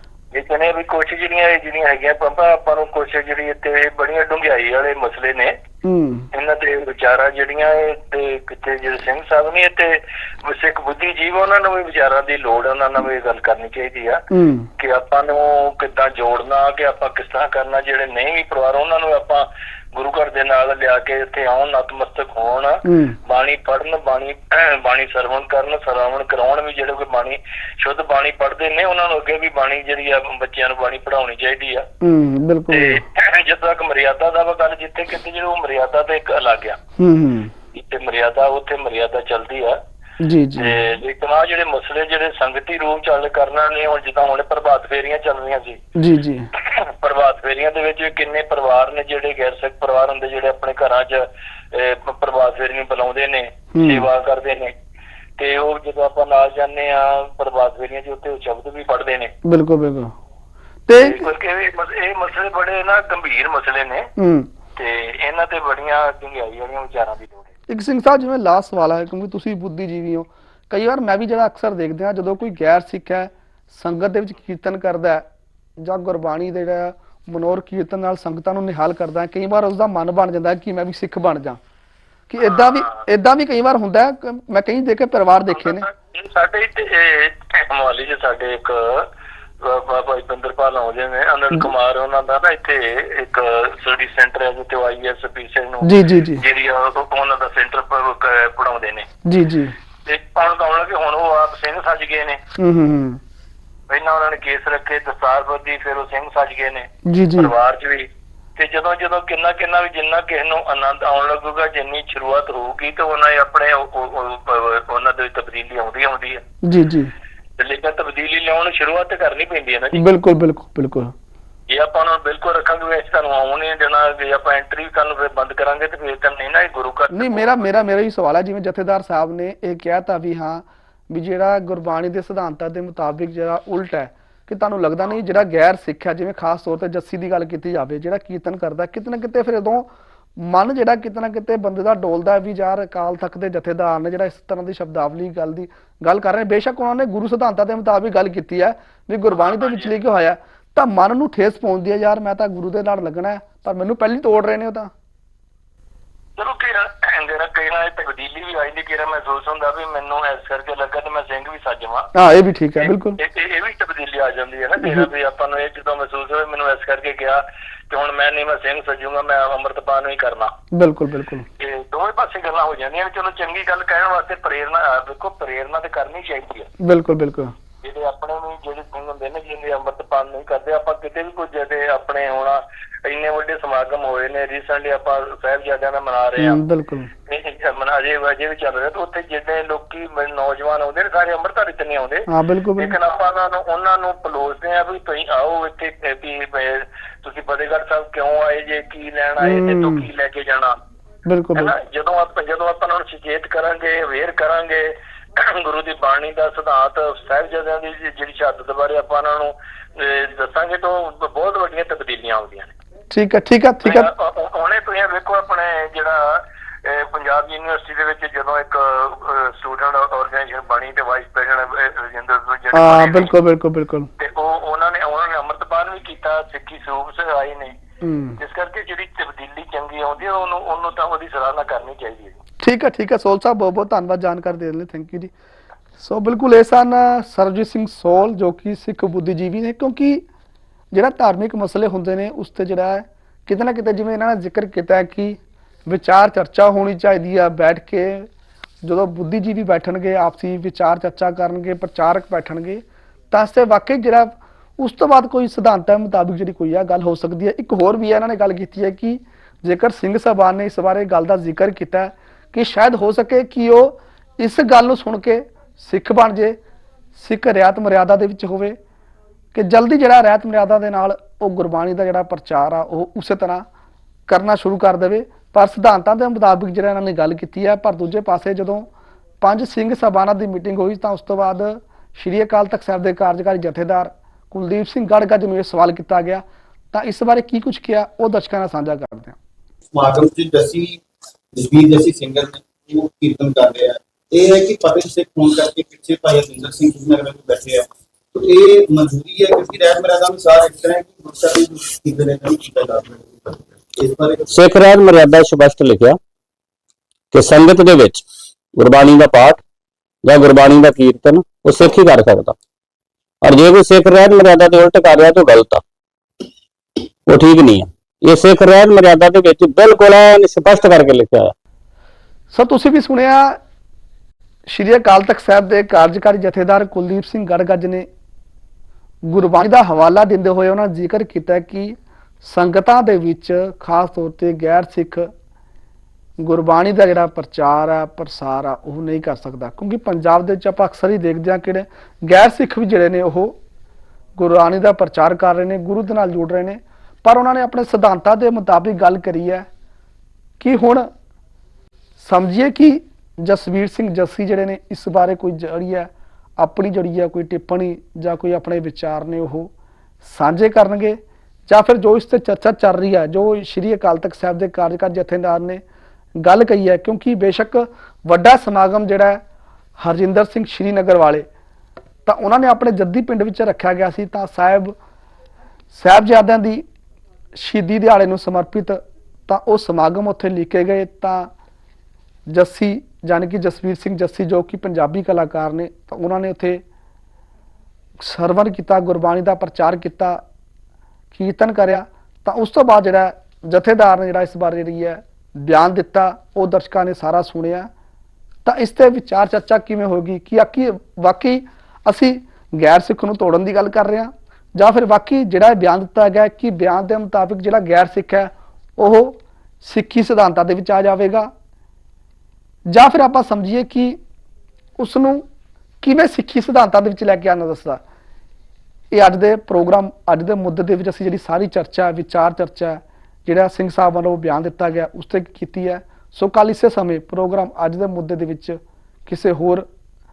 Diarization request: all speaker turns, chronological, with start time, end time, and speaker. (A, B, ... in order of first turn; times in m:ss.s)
0:00.3-0:05.5 A
0:05.8-0:06.3 B
0:06.3-0:14.2 A
0:14.3-0:14.7 B
0:14.8-0:31.9 A
0:22.8-0:23.2 B
0:32.0-0:33.0 B
0:32.7-0:36.8 A
0:37.0-0:37.5 B
0:37.7-0:39.8 A
0:40.2-0:40.9 B
0:40.6-0:45.8 A
0:46.0-0:46.5 B
0:46.5-0:54.7 A
0:53.7-0:54.1 B
0:55.4-0:59.3 A
0:59.4-1:00.1 B
1:00.9-1:01.3 B
1:01.0-1:04.1 A
1:04.2-1:04.5 B
1:04.8-1:07.5 A
1:07.7-1:15.2 B
1:15.8-1:21.6 B
1:22.3-1:25.9 B
1:22.4-1:23.0 A
1:25.5-1:29.1 A
1:29.6-1:39.1 A
1:35.8-1:36.4 B
1:39.2-1:39.8 B
1:40.0-1:42.4 A
1:42.6-1:43.2 B
1:43.9-1:56.4 A
1:47.1-1:47.5 B
1:56.6-1:57.1 B
1:57.6-2:00.0 A
1:59.9-2:01.1 B
2:01.7-2:07.8 A
2:07.1-2:34.9 B
2:29.3-2:29.9 A
2:36.4-2:42.1 A
2:42.2-2:43.2 B
2:42.8-2:50.5 A
2:44.8-2:45.1 B
2:50.7-2:51.5 B
2:51.6-2:56.7 A
2:56.8-2:57.5 B
2:57.8-3:06.6 A
3:06.4-3:07.1 B
3:07.3-3:20.7 A
3:12.3-3:13.0 B
3:19.4-3:20.1 B
3:21.3-3:21.7 B
3:21.6-3:32.7 A
3:33.1-3:34.1 B
3:33.8-3:43.3 A
3:42.7-3:44.1 B
3:44.2-3:47.7 A
3:48.0-3:48.4 B
3:48.4-3:52.4 A
3:52.6-3:55.3 B
3:56.0-4:00.2 B
4:00.9-4:08.3 B
4:08.8-4:26.6 B
4:27.2-4:28.8 B
4:29.5-4:33.6 B
4:34.3-4:38.9 B
4:39.4-4:49.4 B
4:49.9-4:51.0 C
4:51.6-5:04.5 C
5:04.5-5:06.2 D
5:07.3-5:09.6 D
5:10.2-5:12.6 D
5:13.4-5:15.8 D
5:17.3-5:21.5 D
5:22.5-5:23.6 B
5:24.7-5:28.1 B
5:29.3-5:35.3 B
5:36.4-5:43.6 B
5:44.4-5:49.7 B
5:50.6-5:51.1 B
5:52.2-5:59.7 B
6:00.2-6:01.2 B
6:01.7-6:05.8 B
6:06.4-6:09.4 B
6:10.0-6:11.5 B
6:12.3-6:15.0 B
6:15.9-6:16.9 B
6:17.6-6:21.5 B
6:22.5-6:26.8 B
6:28.2-6:30.4 B
6:31.3-6:37.9 B
6:38.6-6:51.5 B
6:52.9-6:54.2 B
6:55.0-6:55.4 B
6:56.0-6:58.0 B
6:59.1-7:09.9 B